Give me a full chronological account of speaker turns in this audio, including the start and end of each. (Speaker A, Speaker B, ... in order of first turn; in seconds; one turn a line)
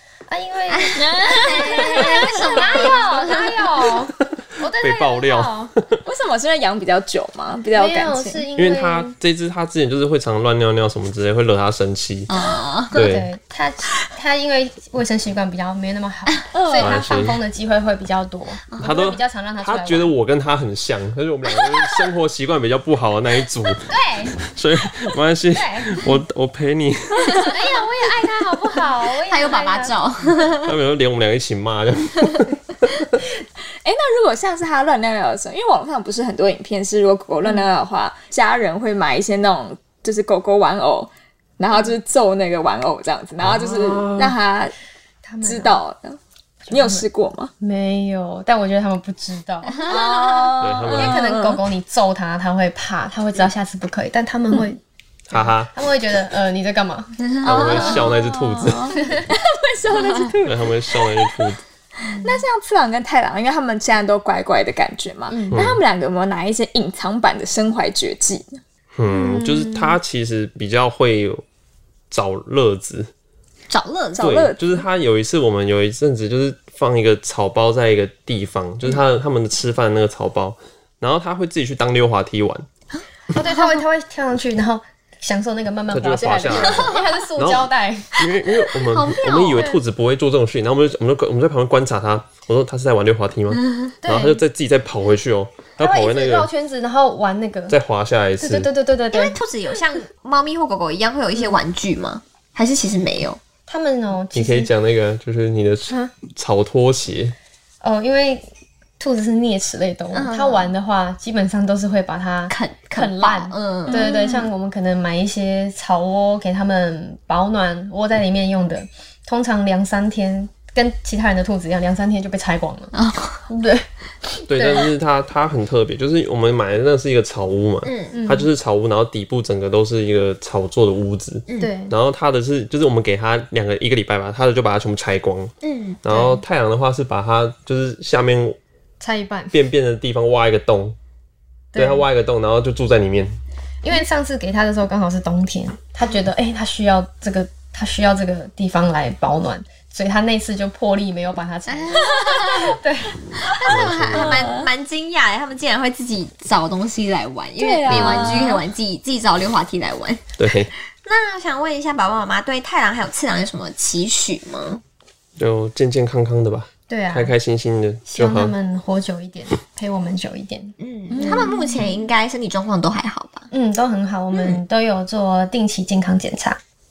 Speaker A: 0.3-5.7
Speaker B: 0.7-3.5
Speaker C: 1.0-3.6
Speaker D: 4.8-6.0
Speaker C: 6.0-8.4
Speaker A: 7.7-9.2
Speaker D: 8.6-12.3
Speaker B: 12.3-13.0
Speaker D: 12.9-13.3
Speaker A: 12.9-20.2
Speaker C: 16.5-17.0
Speaker D: 16.8-17.4
Speaker B: 18.7-19.0
Speaker D: 18.8-27.6
Speaker B: 21.6-22.1
Speaker A: 23.8-24.4
Speaker A: 25.5-26.1
Speaker A: 27.4-30.0
Speaker B: 29.2-30.8
Speaker D: 30.6-32.9
Speaker C: 33.8-44.7
Speaker D: 43.4-44.4
Speaker A: 45.2-45.8
Speaker C: 45.4-46.2
Speaker A: 46.6-47.1
Speaker C: 46.7-47.5
Speaker A: 47.6-54.8
Speaker C: 49.8-51.6
Speaker D: 50.6-51.3
Speaker D: 55.3-55.7
Speaker A: 55.3-57.9
Speaker B: 57.2-58.1
Speaker D: 57.4-59.0
Speaker C: 57.6-61.5
Speaker D: 60.4-61.6
Speaker A: 62.1-62.4
Speaker C: 62.1-68.6
Speaker A: 65.3-65.7
Speaker D: 65.5-65.8
Speaker D: 69.0-71.5
Speaker A: 69.1-70.0
Speaker D: 72.1-73.1
Speaker B: 73.7-74.3
Speaker C: 74.1-74.8
Speaker D: 74.2-82.7
Speaker A: 83.3-88.2
Speaker D: 85.9-96.5
Speaker B: 86.5-87.0
Speaker B: 88.7-89.7
Speaker A: 89.5-89.8
Speaker A: 94.0-94.4
Speaker A: 95.8-97.8
Speaker D: 97.7-98.7
Speaker A: 98.4-99.4
Speaker B: 99.1-103.4
Speaker A: 103.7-104.7
Speaker D: 104.3-107.3
Speaker A: 107.8-108.5
Speaker A: 109.0-122.9
Speaker B: 110.1-110.7
Speaker B: 112.5-114.0
Speaker C: 113.9-114.5
Speaker B: 122.9-123.4
Speaker A: 123.5-123.9
Speaker A: 124.4-124.9
Speaker D: 124.5-138.6
Speaker B: 127.8-128.2
Speaker A: 128.1-128.5
Speaker A: 131.6-132.0
Speaker B: 135.6-136.0
Speaker A: 136.1-136.4
Speaker A: 139.0-139.6
Speaker D: 139.5-141.0
Speaker A: 141.7-142.1
Speaker D: 141.8-143.4
Speaker A: 143.8-153.2
Speaker B: 151.7-152.8
Speaker B: 153.4-160.2
Speaker D: 153.7-154.5
Speaker C: 154.1-154.7
Speaker C: 157.6-158.7
Speaker D: 160.4-160.7
Speaker B: 161.1-164.8
Speaker D: 165.4-168.6
Speaker A: 166.9-167.3
Speaker A: 168.1-171.6
Speaker B: 170.8-173.5
Speaker C: 171.1-171.9
Speaker A: 173.5-176.6
Speaker B: 174.3-174.6